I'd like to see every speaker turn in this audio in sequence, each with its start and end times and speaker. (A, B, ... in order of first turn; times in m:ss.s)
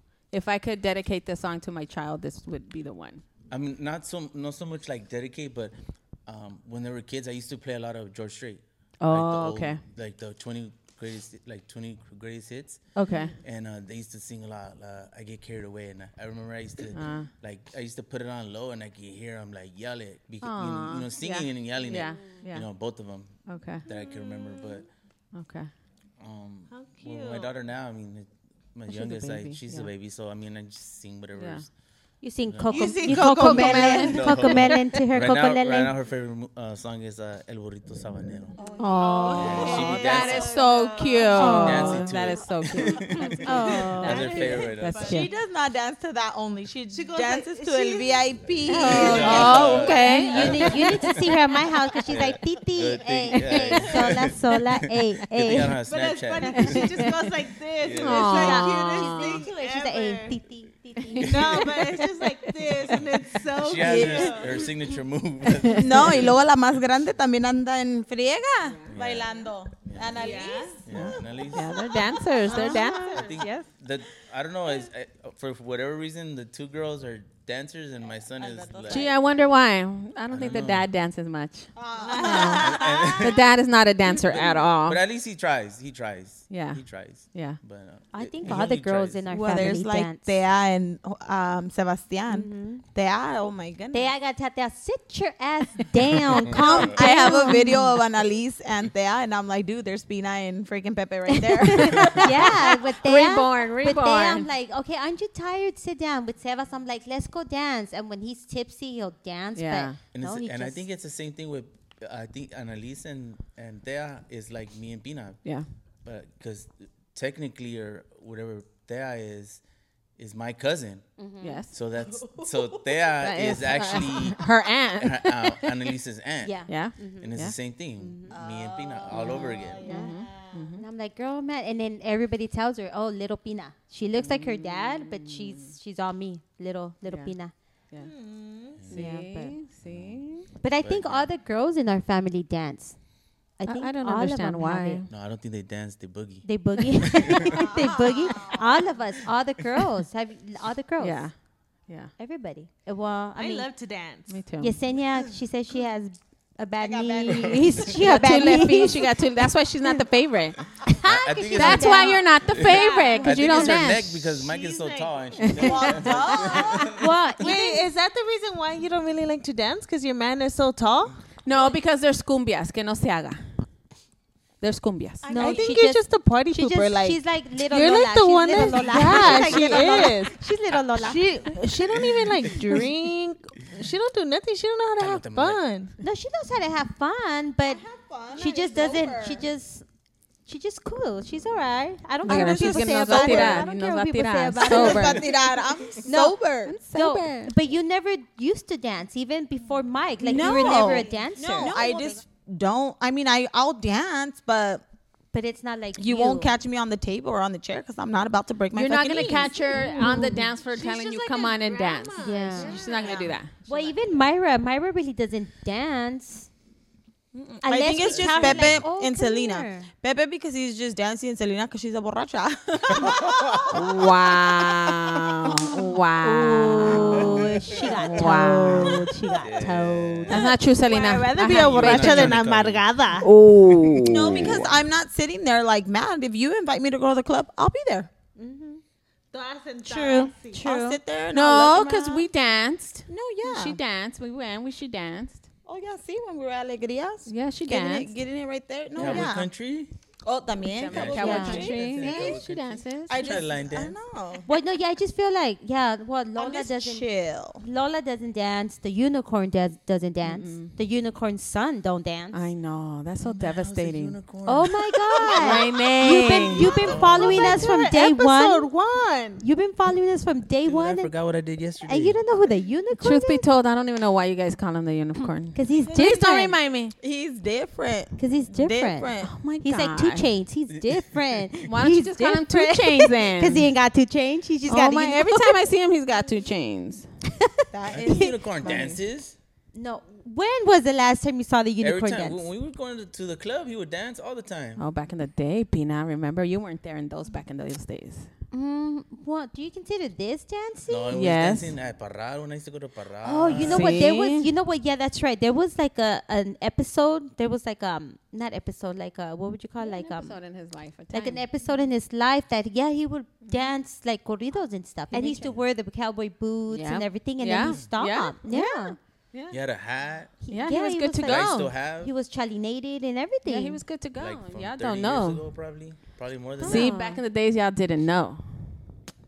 0:00.3-0:03.2 A
0:03.5-0:05.7 B
0:06.3-0:12.8 B
0:09.0-0:09.8 A
0:13.0-0:13.4 A
0:13.4-0:24.9 B
0:16.9-0:17.3 A
0:20.4-0:22.7 A
0:23.5-0:23.8 A
0:23.9-0:24.8 C
0:25.3-0:25.7 A
0:26.2-0:31.7 B
0:26.7-0:27.5 C
0:28.9-0:29.9 A
0:31.4-0:31.6 A
0:32.2-0:35.9 D
0:32.4-0:33.0 B
0:32.7-0:34.5 C
0:33.3-0:34.7 A
0:33.8-0:38.6 B
0:38.6-0:39.3 E
0:38.6-0:41.9 C
0:38.8-0:45.3 A
0:39.4-0:40.6 B
0:41.4-0:42.0 D
0:41.4-0:45.1 B
0:43.1-0:45.4 C
0:43.4-0:44.6 D
0:45.0-0:49.9 E
0:46.9-0:49.9 C
0:48.7-0:51.0 A
0:48.8-0:51.4 B
0:49.8-0:55.8 D
0:52.1-0:57.2 B
0:55.8-1:00.4 C
0:56.5-0:56.8 A
0:57.8-0:58.4 B
0:57.9-0:59.2 A
0:58.3-1:01.8 D
1:01.0-1:04.0 A
1:01.2-1:04.6 C
1:03.6-1:06.4 B
1:03.8-1:04.4 E
1:05.5-1:05.8 A
1:05.7-1:11.9 E
1:08.9-1:11.8 B
1:10.1-1:10.8 C
1:10.9-1:13.5 A
1:12.5-1:13.3 C
1:13.0-1:19.1 B
1:13.2-1:13.7 E
1:18.4-1:19.3 E
1:18.9-1:25.0 A
1:20.3-1:20.9 B
1:21.8-1:23.0 E
1:22.0-1:23.3 C
1:22.6-1:23.4 B
1:24.2-1:29.2 B
1:26.5-1:27.6 A
1:28.1-1:30.3 D
1:29.3-1:34.1 E
1:32.3-1:32.8 D
1:33.9-1:37.9 D
1:36.3-1:37.0 B
1:36.7-1:42.5 E
1:37.0-1:37.9 A
1:41.8-1:44.5 A
1:41.8-1:50.8 D
1:49.6-1:50.0 A
1:50.1-1:55.4 B
1:56.0-1:59.6 B
2:00.2-2:01.1 B
2:01.2-2:01.6 D
2:01.4-2:01.7 A
2:01.7-2:04.4 B
2:03.2-2:05.9 A
2:05.0-2:06.6 B
2:06.4-2:07.3 D
2:06.7-2:07.6 A
2:07.2-2:09.9 B
2:08.0-2:08.4 D
2:08.3-2:10.7 E
2:09.1-2:10.8 A
2:09.9-2:10.2 D
2:10.8-2:17.5 D
2:14.2-2:15.7 A
2:17.1-2:17.3 A
2:18.0-2:18.8 C
2:18.8-2:19.0 B
2:18.9-2:20.5 A
2:18.9-2:19.6 D
2:19.9-2:21.3 B
2:20.6-2:23.0 D
2:23.6-2:25.1 D
2:23.6-2:25.1 A
2:25.1-2:27.6 B
2:26.4-2:31.3 D
2:27.5-2:28.9 E
2:31.0-2:31.3 A
2:32.2-2:33.7 D
2:33.4-2:34.4 C
2:34.3-2:34.8 A
2:34.6-2:39.1 D
2:36.8-2:37.8 E
2:37.3-2:37.9 B
2:38.0-2:40.6 A
2:40.8-2:43.2 D
2:41.0-2:47.3 B
2:41.5-2:44.3 A
2:42.6-2:43.7 C
2:44.3-2:45.5 C
2:45.4-2:46.0 A
2:45.5-2:47.0 E
2:46.1-2:46.6 C
2:46.9-2:47.9 D
2:47.4-2:51.2 C
2:51.4-2:53.6 A
2:54.6-2:55.3 A
2:55.2-2:55.8 E
2:55.3-3:00.4 C
2:55.3-3:01.2 D
2:59.4-2:59.9 E
3:00.9-3:05.9 C
3:02.0-3:02.6 B
3:05.0-3:05.6 B
3:06.0-3:07.8 D
3:07.6-3:09.5 E
3:08.4-3:09.8 D
3:10.5-3:21.8 D
3:12.2-3:15.2 A
3:12.3-3:13.7 E
3:14.6-3:16.8 E
3:16.6-3:17.5 A
3:20.2-3:24.8 E
3:20.5-3:21.9 C
3:21.6-3:22.1 A
3:25.3-3:26.5 D
3:26.0-3:29.9 E
3:28.7-3:33.5 A
3:29.2-3:34.2 C
3:32.2-3:32.8 D
3:32.9-3:33.3 E
3:33.7-3:36.5 D
3:37.3-3:43.7 E
3:37.6-3:39.9 D
3:38.1-3:38.9 B
3:42.8-3:43.8 B
3:43.7-3:47.4 A
3:46.2-3:50.4 D
3:48.0-3:49.0 A
3:48.8-3:50.4 B
3:50.3-3:52.4 A
3:50.4-3:53.3 C
3:51.4-3:52.9 B
3:53.2-3:54.6 A
3:54.0-3:58.1 E
3:54.1-3:54.8 B
3:59.3-4:00.6 C
3:59.9-4:01.0 D
4:00.6-4:02.3 E
4:01.3-4:05.5 A
4:03.1-4:03.8 E
4:05.7-4:09.5 E
4:07.3-4:08.2 A
4:09.0-4:09.9 B
4:10.2-4:12.4 E
4:10.6-4:13.4 A
4:10.9-4:14.0 B
4:11.2-4:11.7 D
4:13.1-4:14.5 E
4:14.5-4:17.1 D
4:16.4-4:17.6 E
4:17.6-4:22.4 D
4:20.2-4:20.8 A
4:22.3-4:24.2 A
4:23.2-4:25.2 B
4:24.4-4:28.7 D
4:25.1-4:29.4 C
4:25.4-4:26.7 A
4:26.8-4:27.7 B
4:29.4-4:31.1 D
4:30.6-4:32.2 B
4:31.8-4:33.4 D
4:33.0-4:36.9 A
4:35.5-4:36.6 D
4:37.0-4:39.4 E
4:38.2-4:45.6 D
4:39.2-4:40.3 A
4:41.7-4:43.7 A
4:44.7-4:47.1 A
4:47.7-4:49.0 E
4:47.9-4:49.4 B
4:49.7-4:52.4 D
4:51.8-4:54.8 B
4:54.8-4:58.3 A
4:58.5-5:01.2 D
5:00.9-5:04.0 B
5:01.1-5:01.7 A
5:03.2-5:10.4 D
5:03.5-5:04.5 A
5:09.8-5:11.5 A
5:11.1-5:19.0 D
5:15.1-5:15.5 A
5:16.7-5:19.6 A
5:19.5-5:20.4 B
5:20.4-5:23.8 D
5:20.5-5:21.7 A
5:21.2-5:22.1 B
5:23.5-5:25.5 A
5:24.2-5:27.0 B
5:26.6-5:28.7 A
5:26.6-5:27.2 D